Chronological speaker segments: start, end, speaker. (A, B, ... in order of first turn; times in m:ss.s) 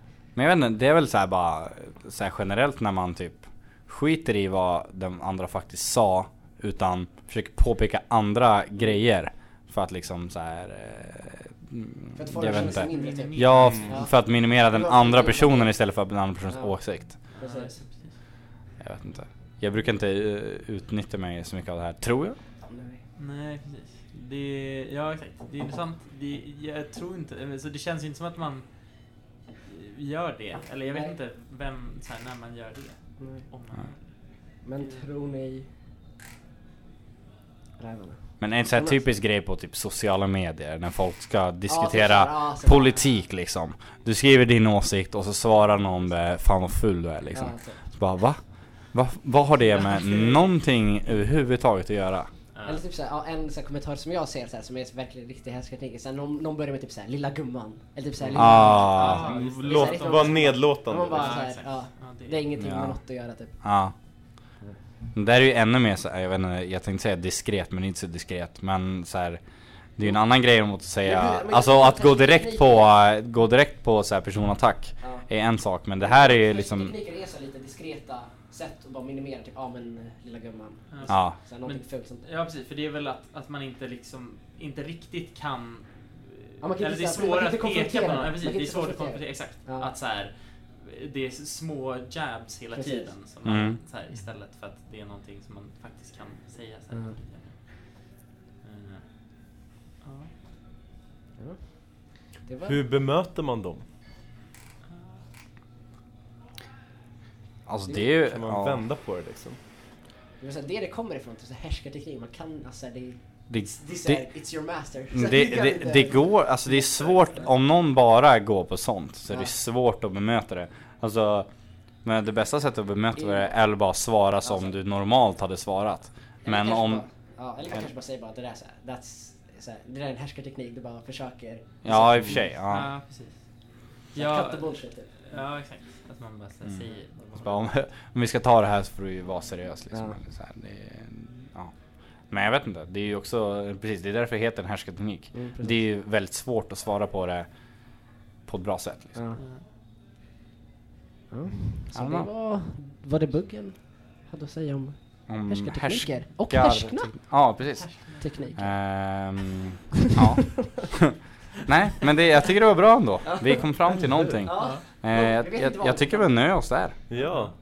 0:00.4-0:17.1 A
0:12.2-0:15.7 B
0:12.5-0:13.8 C
0:13.6-0:13.9 D
0:16.5-0:17.7 B
0:17.4-0:18.1 C
0:18.8-0:22.4 A
0:22.7-0:23.0 B
0:23.2-0:28.6 C
0:29.7-0:34.0 C
0:33.2-0:33.5 B
0:34.6-0:35.7 B
0:37.8-0:39.0 B
0:38.4-0:48.4 A
0:41.7-0:43.2 B
0:47.3-0:47.8 B
0:48.9-0:52.3 A
0:49.6-0:50.5 C
0:52.5-0:52.8 C
0:52.6-1:03.5 B
0:58.2-0:58.5 D
0:58.3-0:59.3 A
0:58.5-1:02.4 C
0:59.2-1:01.4 D
1:02.6-1:03.0 A
1:03.6-1:03.9 A
1:05.2-1:09.4 A
1:10.0-1:16.9 A
1:11.0-1:12.9 B
1:15.0-1:15.2 B
1:16.0-1:22.3 B
1:20.9-1:39.5 C
1:21.1-1:21.4 A
1:26.6-1:29.9 B
1:32.7-1:33.1 B
1:33.4-1:33.8 A
1:36.9-1:37.2 B
1:40.0-1:40.3 C
1:41.4-1:42.8 B
1:42.6-1:43.8 D
1:47.7-1:48.8 A
1:48.2-1:49.6 D
1:50.4-1:57.5 B
1:53.5-2:01.5 A
2:02.0-2:07.0 A
2:03.2-2:03.5 B
2:04.4-2:04.8 B
2:06.4-2:12.5 B
2:11.8-2:12.9 A
2:12.6-2:13.4 C
2:14.1-2:15.1 B
2:14.1-2:14.7 C
2:15.2-2:17.5 C
2:17.4-2:21.7 A
2:19.9-2:20.2 B
2:22.3-2:27.5 A
2:25.3-2:25.8 B
2:28.5-2:29.2 A
2:29.4-2:29.6 C
2:31.3-2:37.3 B
2:31.9-2:32.3 A
2:35.3-2:41.1 A
2:37.6-2:38.6 C
2:38.2-2:38.6 B
2:41.7-2:47.0 A
2:43.2-2:43.7 B
2:44.0-2:44.4 D
2:44.4-2:46.3 B
2:44.5-2:44.8 C
2:47.1-2:47.5 D